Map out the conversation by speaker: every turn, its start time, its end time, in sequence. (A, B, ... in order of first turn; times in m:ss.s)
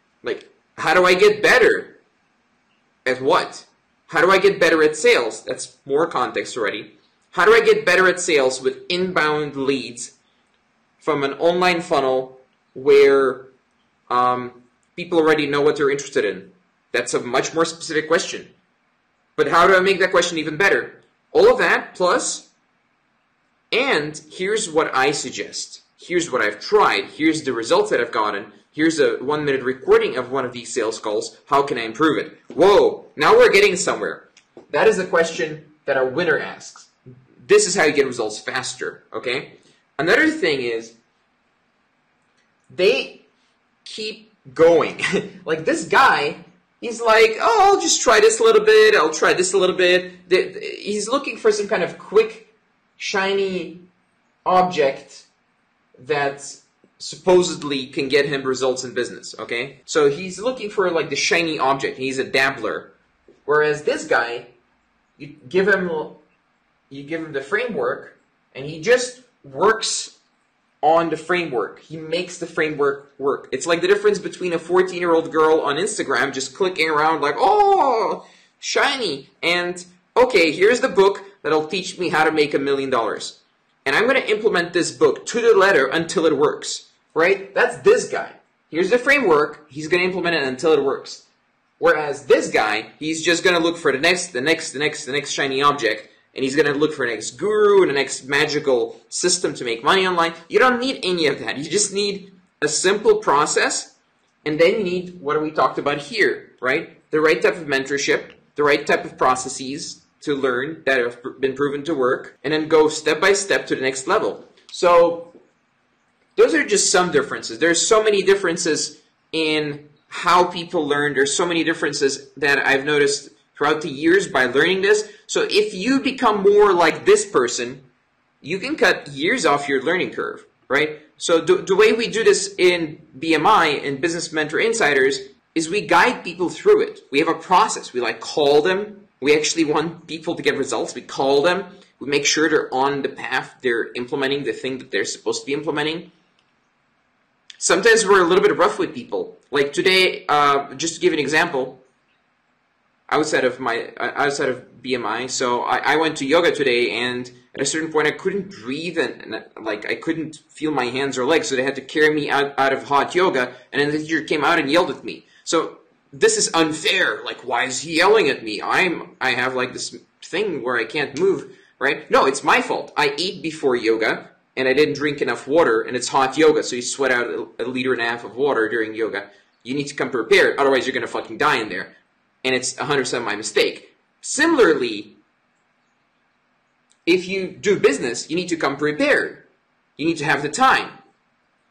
0:00.2-0:02.0 A
0:03.1-0:10.2 A
0:11.0-0:13.5 A
0:14.1-0:18.5 A
0:19.4-0:22.5 A
0:23.7-0:41.0 A
0:42.7-0:43.3 A
0:43.8-0:53.9 A
0:54.4-0:55.3 A
0:56.0-1:03.0 A
1:03.5-1:04.5 A
1:05.2-1:06.2 A
1:06.9-1:10.2 A
1:10.8-1:31.3 A
1:31.8-1:55.4 A
1:56.4-2:07.9 A
2:08.4-2:26.1 A
2:27.6-2:31.8 A
2:33.1-3:05.2 A
3:07.1-3:11.0 A